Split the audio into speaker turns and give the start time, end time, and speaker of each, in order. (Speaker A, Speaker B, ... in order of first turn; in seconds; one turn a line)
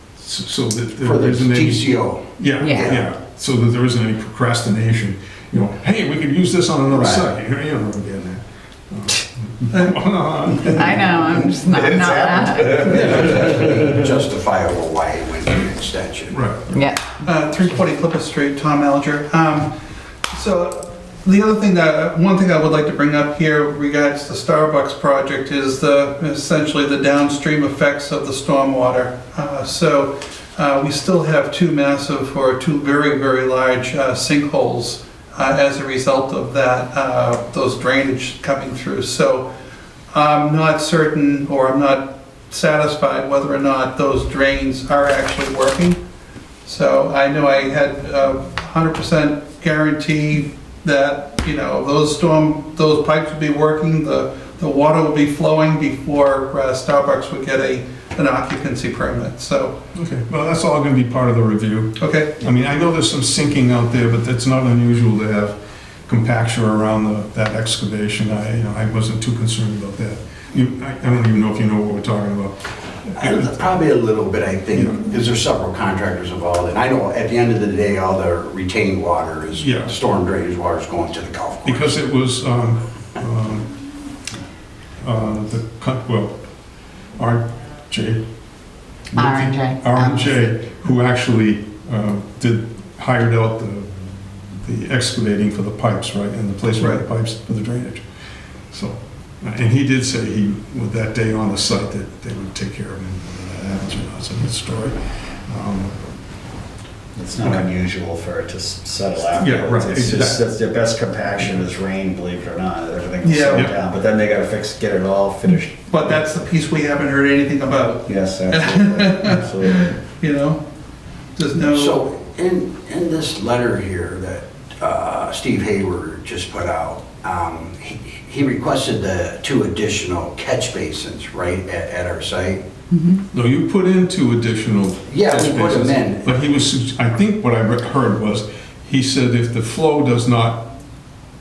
Speaker A: 0.2-13.4
Speaker B: 1.0-3.0
Speaker C: 2.6-3.0
Speaker B: 6.9-7.2
Speaker C: 10.6-13.3
Speaker B: 12.7-16.4
Speaker A: 16.3-16.7
Speaker C: 16.7-17.2
Speaker D: 17.2-19.7
Speaker D: 20.3-39.5
Speaker D: 40.1-46.0
Speaker D: 46.7-59.8
Speaker A: 60.0-65.6
Speaker D: 62.0-62.4
Speaker A: 66.1-73.4
Speaker B: 73.2-81.9
Speaker A: 74.7-75.0
Speaker A: 79.5-80.0
Speaker A: 81.7-83.7
Speaker A: 85.0-86.4
Speaker A: 87.2-88.2
Speaker A: 89.1-94.0
Speaker C: 89.2-90.5
Speaker A: 94.5-98.0
Speaker A: 98.7-106.0
Speaker E: 107.2-115.9
Speaker A: 109.3-110.4
Speaker D: 113.2-113.7
Speaker D: 115.9-120.6
Speaker E: 118.1-120.0
Speaker D: 121.4-122.0
Speaker B: 121.7-132.6
Speaker C: 132.9-133.2
Speaker A: 133.3-140.7
Speaker B: 135.1-136.5